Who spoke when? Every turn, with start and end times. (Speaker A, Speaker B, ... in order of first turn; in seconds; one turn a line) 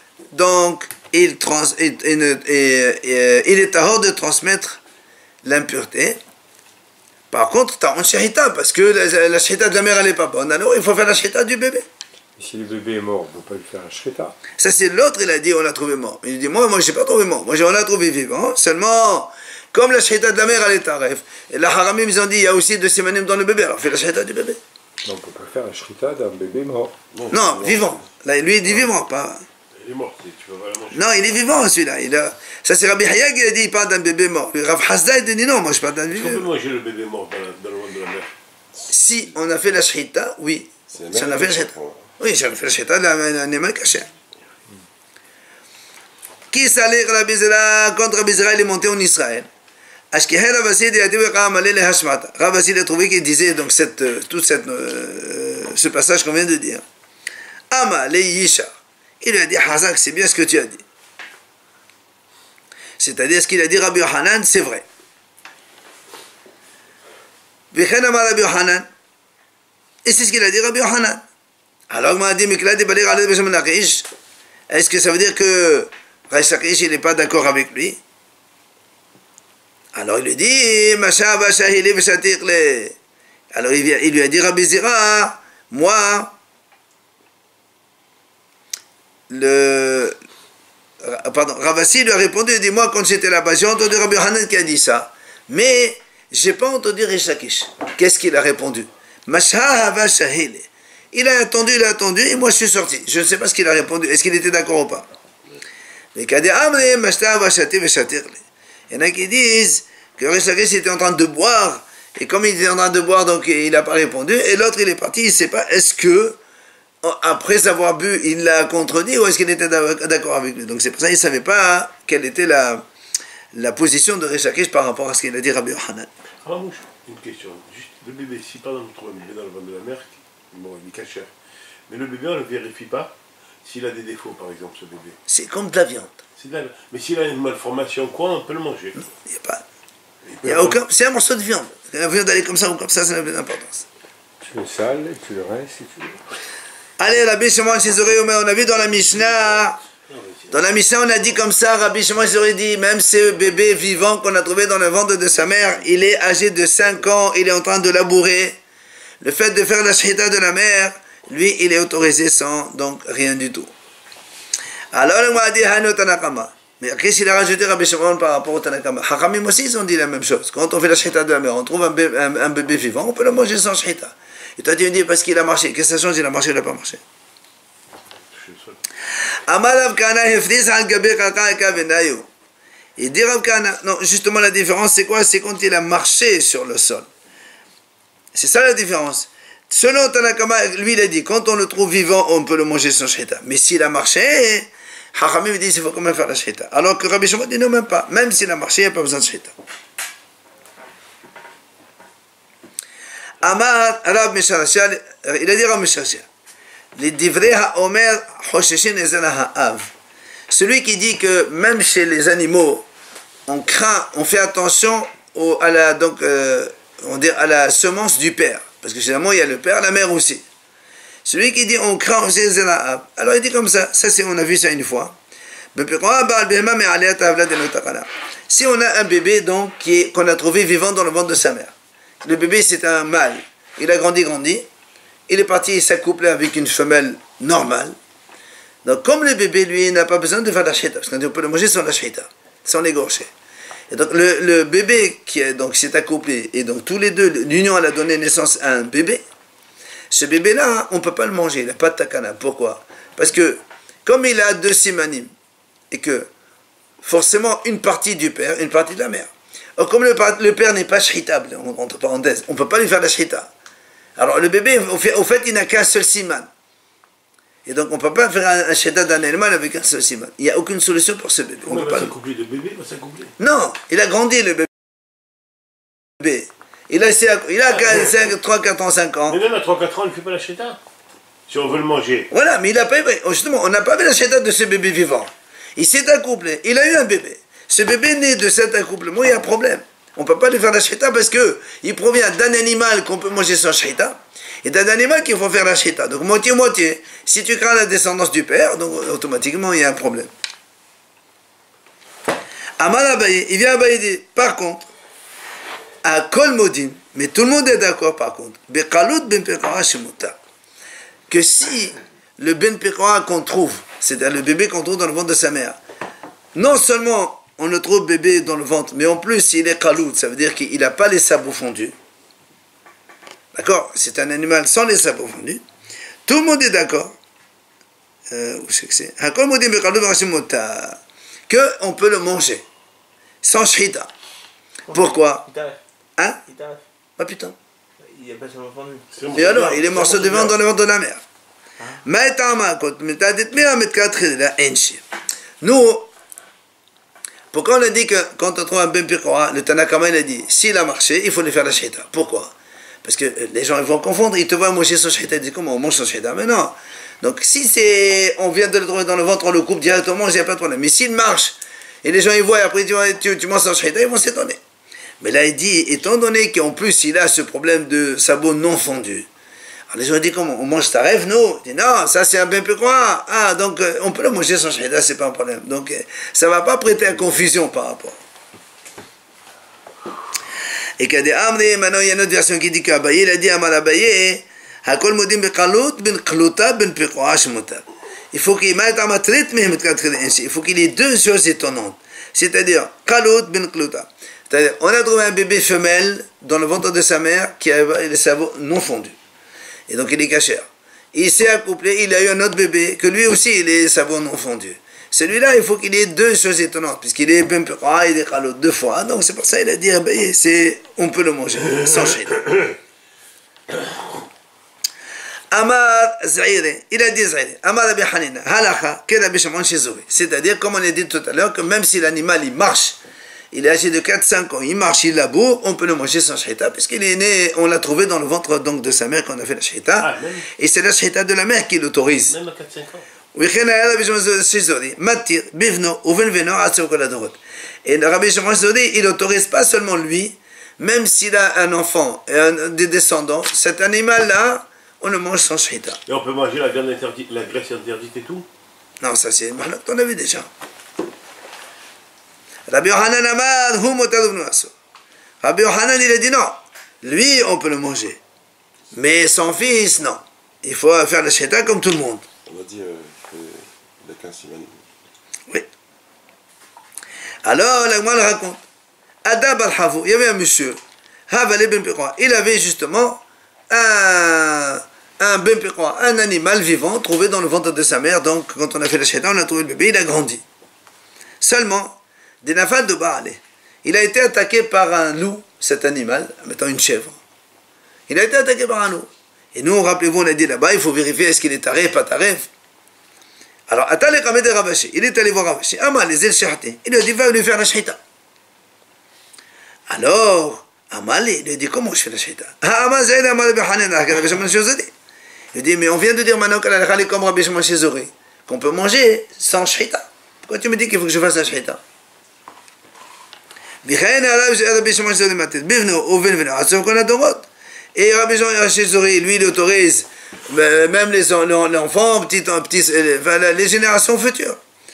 Speaker A: 0.3-4.8
Speaker A: 5.4-6.2
Speaker A: 7.3-11.8
Speaker B: 12.4-14.3
Speaker A: 14.6-24.6
Speaker B: 25.0-26.9
Speaker C: 27.1-28.1
Speaker A: 27.3-29.4
Speaker D: 29.8-31.1
Speaker A: 30.9-36.5
Speaker D: 36.1-38.3
Speaker A: 38.9-44.1
Speaker C: 40.9-42.1
Speaker A: 46.5-49.5
Speaker A: 50.1-56.8
Speaker A: 57.7-58.7
Speaker A: 59.2-60.8
Speaker A: 63.0-64.8
Speaker A: 67.7-68.9
Speaker A: 70.0-71.2
Speaker A: 71.9-74.1
Speaker A: 74.7-78.0
Speaker A: 79.9-82.9
Speaker A: 83.5-86.3
Speaker A: 89.3-90.2
Speaker A: 91.0-105.1
Speaker A: 106.1-116.4
Speaker A: 117.0-122.8
Speaker A: 123.5-126.1
Speaker D: 126.4-131.3
Speaker D: 131.9-135.2
Speaker A: 135.3-136.2
Speaker D: 136.4-139.0
Speaker A: 139.0-139.6
Speaker D: 140.3-140.8
Speaker A: 140.4-143.8
Speaker B: 144.4-146.2
Speaker A: 147.0-149.8
Speaker D: 149.4-150.6
Speaker A: 150.5-158.6
Speaker A: 159.2-163.7
Speaker A: 164.9-177.0
Speaker D: 178.3-178.8
Speaker A: 179.5-182.3
Speaker A: 183.0-187.1
Speaker A: 188.3-199.5
Speaker A: 203.4-206.2
Speaker A: 206.9-209.9
Speaker A: 210.5-212.8
Speaker A: 213.5-220.4
Speaker A: 221.2-225.1
Speaker A: 225.7-234.7
Speaker A: 235.3-237.9
Speaker A: 238.8-243.3
Speaker A: 243.9-249.2
Speaker A: 250.1-255.3
Speaker A: 255.9-256.3
Speaker A: 257.0-263.5
Speaker A: 264.2-266.5
Speaker A: 267.6-272.1
Speaker D: 271.6-273.4
Speaker A: 273.4-274.7
Speaker A: 276.2-279.4
Speaker D: 279.3-280.8
Speaker D: 281.5-282.3
Speaker A: 282.3-300.3
Speaker A: 302.8-304.9
Speaker A: 306.0-310.4
Speaker A: 311.3-315.8
Speaker A: 316.5-321.9
Speaker A: 323.5-325.6
Speaker A: 326.2-327.1
Speaker A: 328.3-332.6
Speaker A: 333.4-334.1
Speaker E: 334.9-335.8
Speaker A: 334.9-335.4
Speaker E: 336.4-336.8
Speaker A: 337.2-337.5
Speaker E: 338.0-340.1
Speaker D: 339.1-340.6
Speaker A: 339.3-341.2
Speaker A: 342.0-345.0
Speaker A: 345.6-346.1
Speaker A: 347.5-364.6
Speaker A: 365.2-369.3
Speaker A: 369.9-378.2
Speaker A: 381.0-399.1
Speaker A: 399.9-412.4
Speaker A: 415.5-423.0
Speaker A: 423.5-432.4
Speaker D: 430.0-430.4
Speaker D: 432.3-433.0
Speaker A: 433.3-446.0
Speaker D: 446.1-448.4
Speaker A: 449.0-450.5
Speaker A: 452.7-454.7
Speaker A: 455.4-458.2
Speaker A: 458.9-462.2
Speaker C: 462.4-464.9
Speaker A: 467.4-468.6
Speaker A: 469.2-480.4
Speaker A: 481.4-487.1
Speaker A: 488.1-492.5
Speaker A: 493.7-498.0
Speaker A: 499.9-504.9
Speaker A: 505.5-511.8
Speaker A: 513.8-524.6